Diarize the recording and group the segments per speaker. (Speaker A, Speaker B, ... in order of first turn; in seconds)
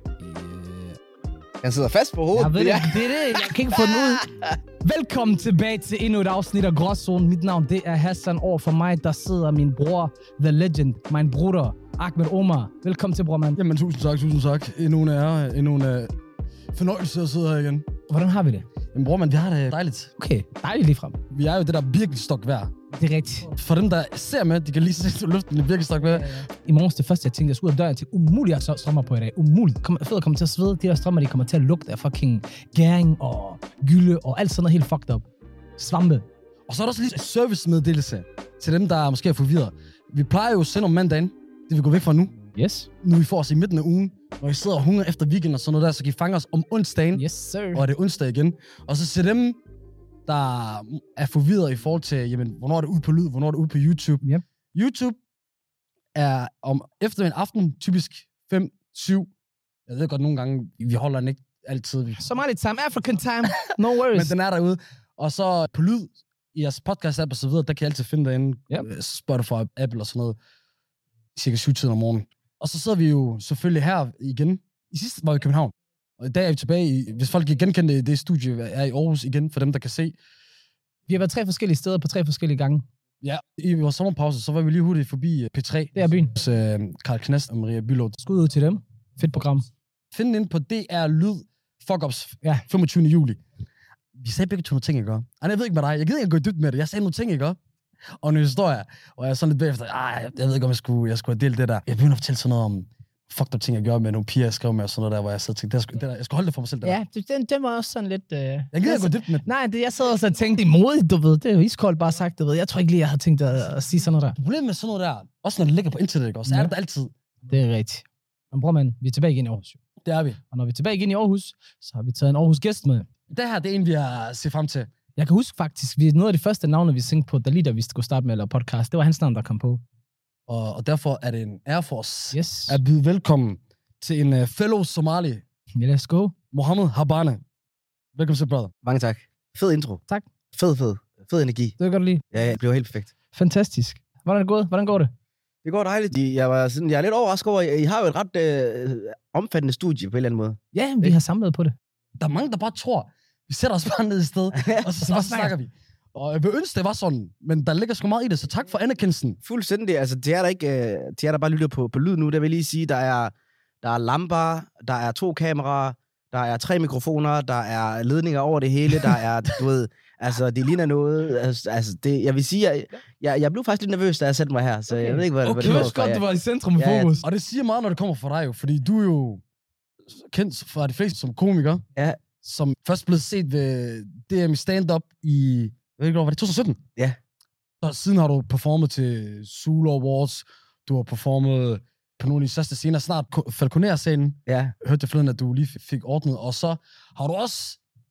Speaker A: 0.2-1.0, 13.6-16.1, 16.7-17.8, 18.9-20.1, 21.3-22.7, 23.5-26.4, 36.7-42.4, 43.0-49.6, 50.2-55.2, 56.1-59.3, 59.9-62.2, 63.5-70.4, 71.3-80.2, 83.2-88.2, 90.1-93.4, 94.2-97.6, 98.2-107.0, 108.7-109.5, 114.4-117.1, 120.0-120.4, 123.3-124.9, 130.5-135.4, 136.5-137.4, 138.1-138.7, 152.2-159.4, 175.6-175.9, 177.2-179.4, 180.1-181.8, 182.4-186.8, 187.8-197.8
Speaker B: 1.6-4.6, 138.8-140.0, 140.5-141.8, 142.3-143.1, 145.6-151.1, 154.5-154.9, 159.4-176.2, 176.8-177.1, 194.5-194.7
Speaker C: 2.3-4.3, 4.8-13.6, 18.1-18.7, 20.2-21.2, 22.9-23.5, 26.2-35.2, 35.8-36.2, 42.5-42.9, 47.1-47.8, 62.2-64.3, 81.1-82.8, 85.9-86.3, 88.2-89.7, 106.8-114.4, 116.5-116.7, 117.5-119.8, 120.5-123.1, 125.2-129.8, 132.3-132.8, 135.8-136.3, 141.8-142.2, 143.3-145.1, 150.7-151.7, 155.0-155.5, 174.9-177.2